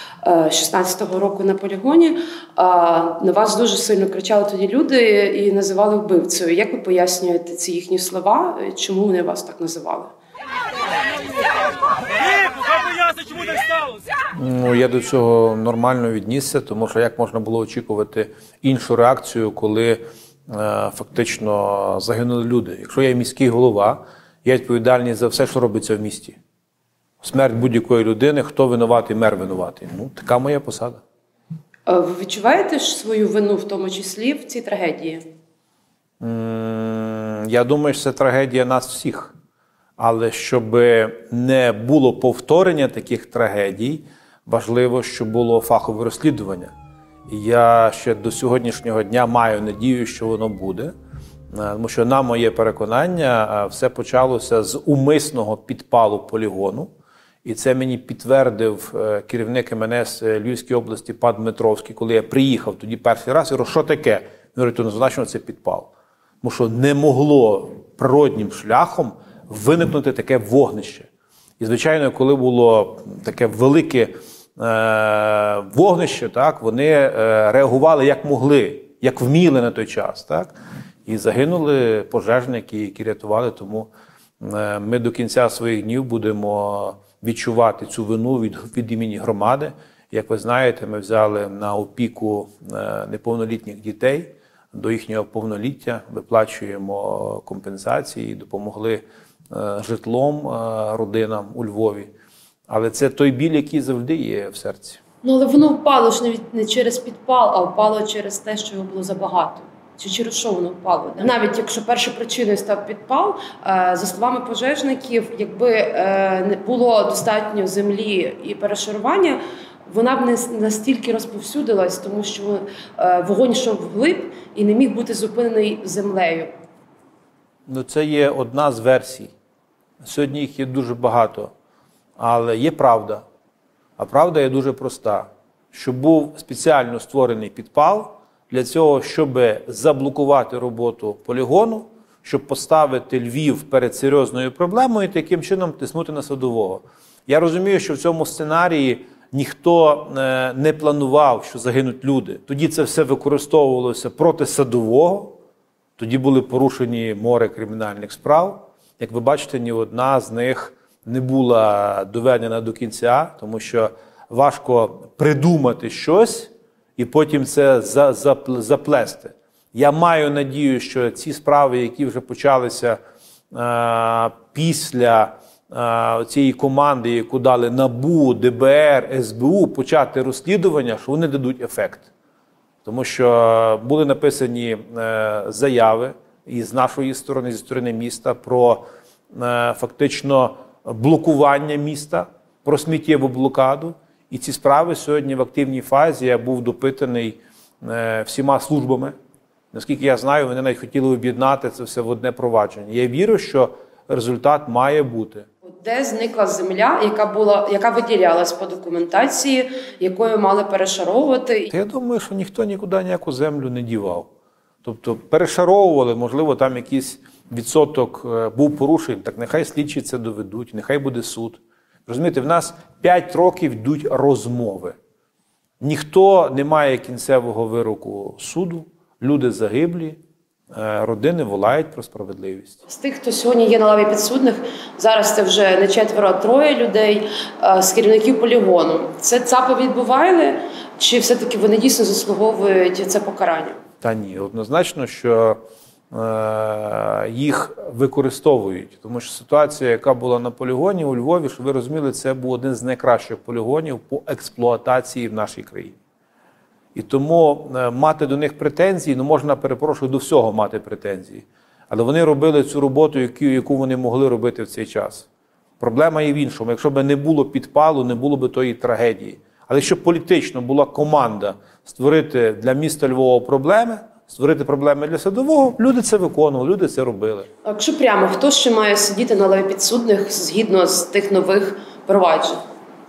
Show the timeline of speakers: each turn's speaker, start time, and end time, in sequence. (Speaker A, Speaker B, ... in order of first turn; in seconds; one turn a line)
Speaker A: 0.2-10.1
Speaker B: 14.3-26.4
Speaker B: 27.2-31.0
Speaker A: 31.9-35.2
Speaker B: 36.2-39.3
Speaker B: 40.0-46.7
Speaker B: 47.3-50.9
Speaker B: 51.5-56.9
Speaker B: 57.4-71.1
Speaker B: 71.6-80.5
Speaker B: 81.1-102.1
Speaker B: 102.7-105.0
Speaker A: 105.2-126.5
Speaker B: 127.7-129.3
Speaker B: 130.0-131.5
Speaker B: 132.2-133.2
Speaker B: 134.0-155.4
Speaker B: 156.0-173.0
Speaker B: 173.5-182.1
Speaker B: 182.8-199.1
Speaker B: 199.7-205.5
Speaker A: 205.7-211.7
Speaker B: 211.7-214.3
Speaker B: 214.8-224.9
Speaker B: 225.8-230.2
Speaker B: 230.7-232.8
Speaker A: 232.9-243.8
Speaker B: 244.0-245.6
Speaker B: 246.1-256.0
Speaker B: 256.9-265.3
Speaker B: 265.8-277.5
Speaker A: 277.6-282.6